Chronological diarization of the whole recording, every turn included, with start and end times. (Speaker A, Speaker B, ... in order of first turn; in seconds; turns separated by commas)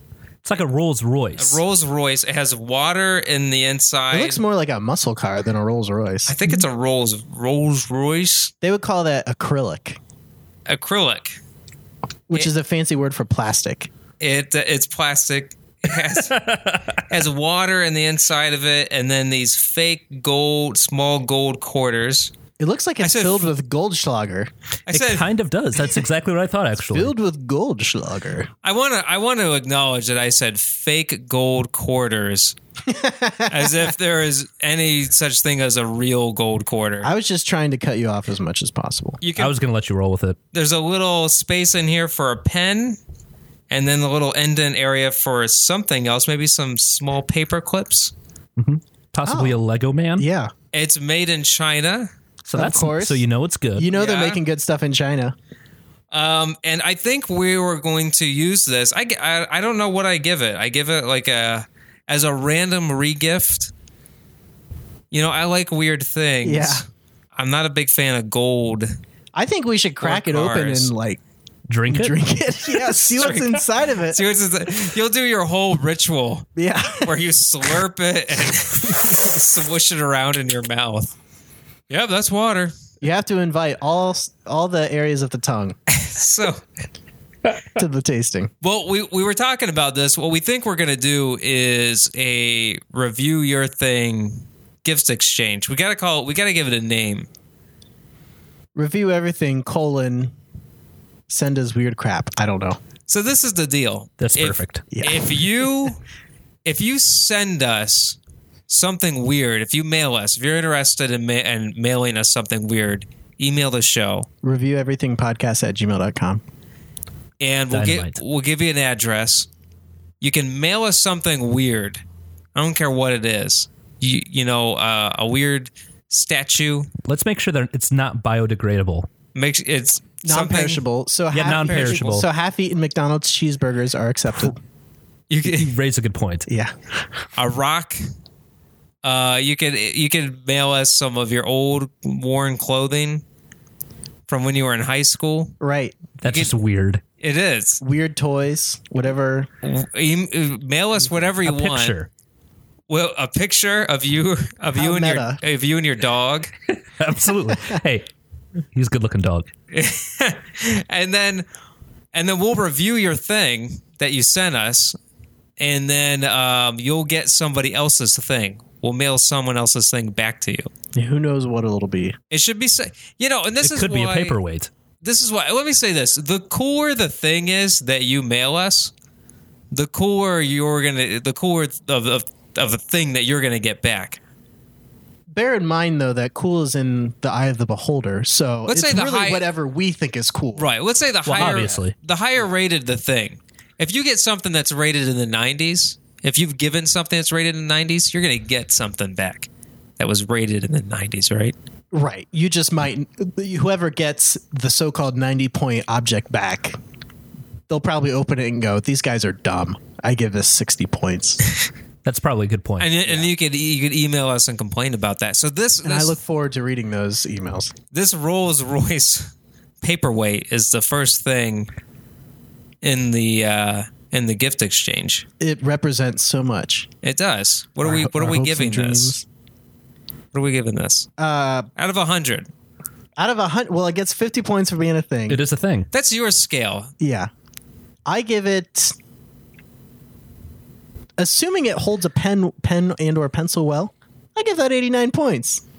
Speaker A: 0.4-1.6, Speaker B: 1.4-4.4, Speaker C: 4.1-6.3, Speaker B: 6.3-8.5, Speaker C: 8.6-10.0, Speaker B: 10.7-11.4, Speaker C: 12.3-13.9, Speaker B: 14.2-16.4, Speaker A: 16.3-17.0, Speaker B: 17.1-22.3, Speaker C: 22.6-24.5, Speaker B: 23.0-23.5, Speaker B: 24.9-25.3, Speaker A: 24.9-27.1, Speaker C: 26.9-28.5, Speaker B: 28.6-32.5, Speaker C: 32.9-33.9, Speaker B: 33.5-37.1, Speaker C: 37.0-39.2, Speaker B: 39.2-39.5, Speaker A: 39.4-40.4, Speaker B: 40.5-43.0, Speaker B: 43.7-48.1, Speaker A: 48.6-50.2, Speaker C: 49.2-49.6, Speaker C: 50.2-50.5, Speaker B: 50.7-52.1, Speaker A: 52.4-53.9, Speaker C: 52.5-53.2, Speaker C: 53.8-55.3, Speaker B: 53.9-54.4, Speaker B: 56.1-63.7, Speaker B: 65.1-66.8, Speaker C: 66.4-66.8, Speaker B: 67.3-69.0, Speaker C: 69.3-71.2, Speaker B: 70.0-70.9, Speaker A: 71.7-72.2, Speaker C: 71.9-74.2, Speaker B: 72.8-76.5, Speaker C: 76.5-77.2, Speaker B: 77.0-81.1, Speaker B: 81.9-82.7, Speaker C: 83.0-85.8, Speaker B: 85.9-86.6, Speaker C: 87.7-88.5, Speaker B: 88.6-97.3, Speaker C: 98.7-100.3, Speaker C: 101.3-102.8, Speaker B: 103.1-106.0, Speaker A: 104.2-104.8, Speaker C: 104.9-105.5, Speaker B: 106.6-108.2, Speaker B: 108.7-114.3, Speaker C: 114.4-116.4, Speaker B: 117.4-119.5, Speaker A: 117.7-118.2, Speaker B: 120.2-122.0, Speaker B: 122.5-126.9, Speaker A: 127.0-129.1, Speaker B: 129.3-130.8, Speaker C: 130.2-134.6, Speaker A: 131.3-132.2, Speaker B: 131.4-132.2, Speaker B: 135.3-135.7, Speaker A: 135.5-136.5, Speaker C: 136.5-136.7, Speaker B: 137.3-138.0, Speaker B: 139.0-143.2, Speaker B: 144.3-145.6, Speaker C: 145.6-146.0, Speaker A: 146.2-147.0, Speaker B: 146.2-146.5, Speaker B: 147.2-147.8, Speaker C: 147.8-149.5, Speaker B: 149.6-152.0, Speaker A: 151.4-152.1, Speaker B: 152.9-156.5, Speaker C: 154.7-155.4, Speaker A: 157.0-158.1, Speaker C: 157.5-157.8, Speaker A: 158.7-159.5, Speaker B: 159.7-161.4, Speaker B: 162.1-165.0, Speaker B: 165.6-170.7, Speaker C: 170.9-172.2, Speaker B: 172.3-174.4, Speaker A: 173.6-174.7, Speaker B: 175.0-178.9, Speaker B: 179.7-184.2, Speaker C: 185.3-190.7, Speaker B: 188.7-189.4, Speaker B: 190.6-199.5, Speaker A: 191.2-191.9, Speaker C: 191.3-191.7, Speaker B: 200.0-201.5, Speaker C: 201.9-206.8, Speaker C: 207.7-211.4, Speaker A: 212.0-212.9, Speaker B: 212.8-216.2, Speaker C: 215.8-217.7, Speaker B: 217.9-221.7, Speaker B: 222.8-225.2, Speaker C: 225.4-226.9, Speaker B: 227.0-229.2, Speaker C: 227.8-229.2, Speaker B: 230.3-231.1, Speaker C: 231.2-231.7, Speaker B: 231.8-232.5, Speaker C: 233.2-235.4, Speaker A: 235.3-235.9, Speaker B: 235.9-236.9, Speaker C: 237.0-237.3, Speaker C: 238.1-238.9, Speaker C: 241.2-245.6